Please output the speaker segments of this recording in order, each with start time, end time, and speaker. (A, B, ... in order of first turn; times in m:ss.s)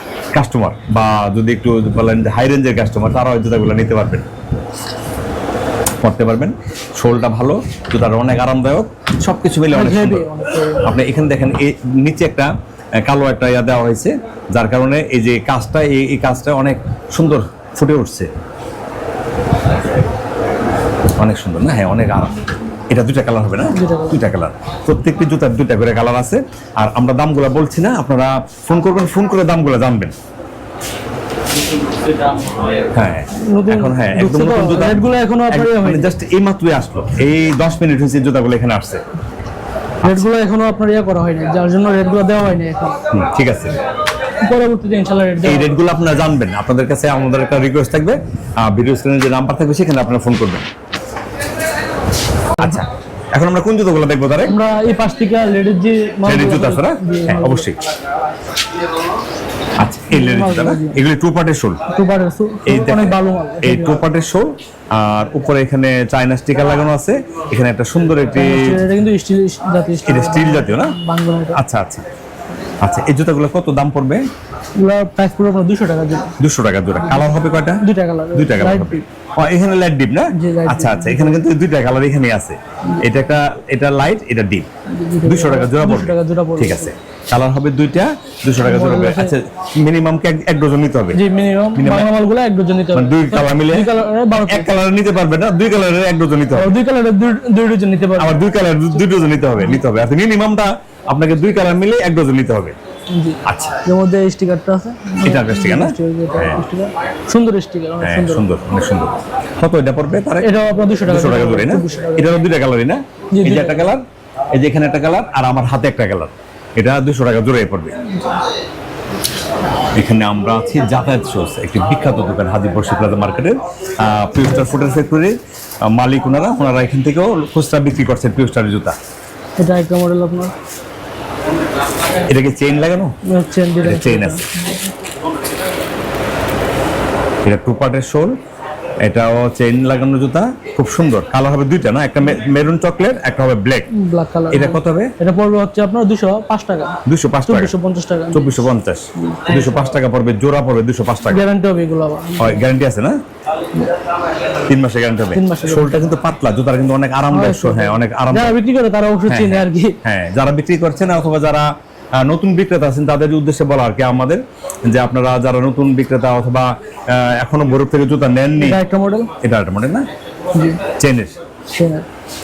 0:00.3-0:04.3 A
0:06.0-0:10.2 A
0:09.7-0:10.8 B
0:10.8-0:12.5 A
0:13.0-0:18.3 A
0:21.2-0:30.1 A
0:23.7-0:24.2 B
0:32.9-0:39.0 A
0:33.3-0:36.1 B
0:40.0-0:43.0 B
0:43.1-0:43.8 A
0:44.4-0:45.8 B
0:45.4-0:50.6 A
0:52.6-0:54.5 A
0:54.5-0:57.7 B
0:56.2-0:57.8 A
0:59.8-1:01.8 A
1:00.1-1:01.0 B
1:01.9-1:04.0 B
1:02.7-1:08.8 A
1:08.3-1:11.6 B
1:10.0-1:10.9 A
1:11.6-1:12.0 A
1:12.8-1:14.2 A
1:14.8-1:16.3 B
1:16.4-1:17.8 A
1:17.8-1:19.0 B
1:18.3-1:24.7 A
1:20.3-1:21.4 B
1:24.9-1:26.9 B
1:25.2-1:31.2 A
1:28.6-1:29.3 B
1:31.1-1:34.7 B
1:31.7-1:32.1 A
1:32.9-1:36.7 A
1:36.6-1:38.4 B
1:38.2-1:42.8 A
1:38.9-1:39.8 B
1:43.1-1:48.5 B
1:43.4-1:43.8 A
1:45.2-1:46.6 A
1:48.0-1:50.5 A
1:50.4-1:52.4 B
1:51.0-1:58.0 A
1:53.3-1:53.9 B
1:59.9-2:09.0 A
2:09.6-2:10.5 B
2:12.3-2:13.1 A
2:13.3-2:14.8 B
2:13.8-2:14.4 A
2:17.4-2:18.3 A
2:19.0-2:23.9 A
2:23.9-2:27.0 B
2:24.5-2:25.1 A
2:27.0-2:27.7 A
2:27.5-2:28.6 B
2:28.3-2:31.4 A
2:29.2-2:29.8 B
2:31.3-2:32.7 B
2:32.4-2:33.2 A
2:34.5-2:38.5 A
2:35.3-2:36.0 B
2:37.3-2:40.0 B
2:39.3-2:48.8 A
2:48.6-2:49.3 B
2:49.4-2:50.1 A
2:50.5-2:50.8 B
2:50.9-2:51.4 A
2:51.7-2:52.0 B